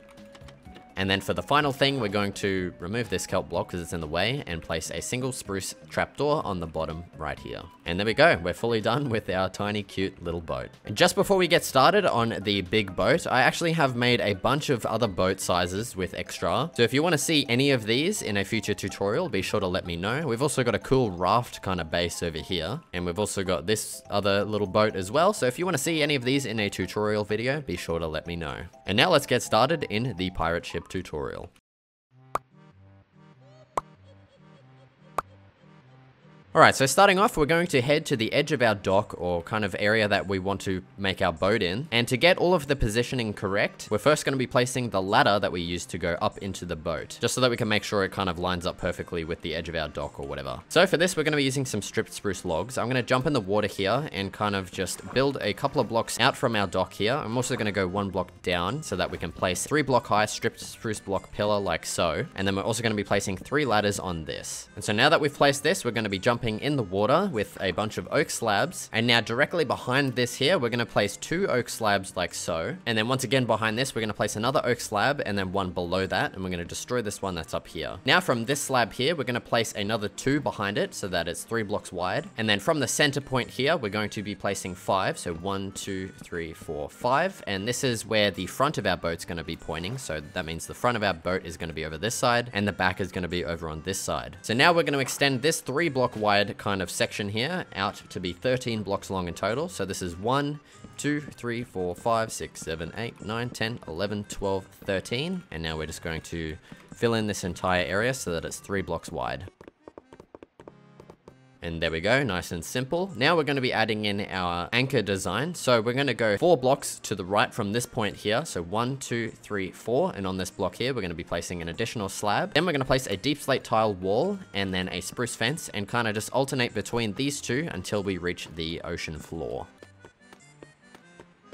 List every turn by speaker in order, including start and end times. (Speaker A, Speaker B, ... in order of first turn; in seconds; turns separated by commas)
Speaker A: 1.0-31.5, Speaker A: 36.5-109.5, Speaker A: 111.6-129.7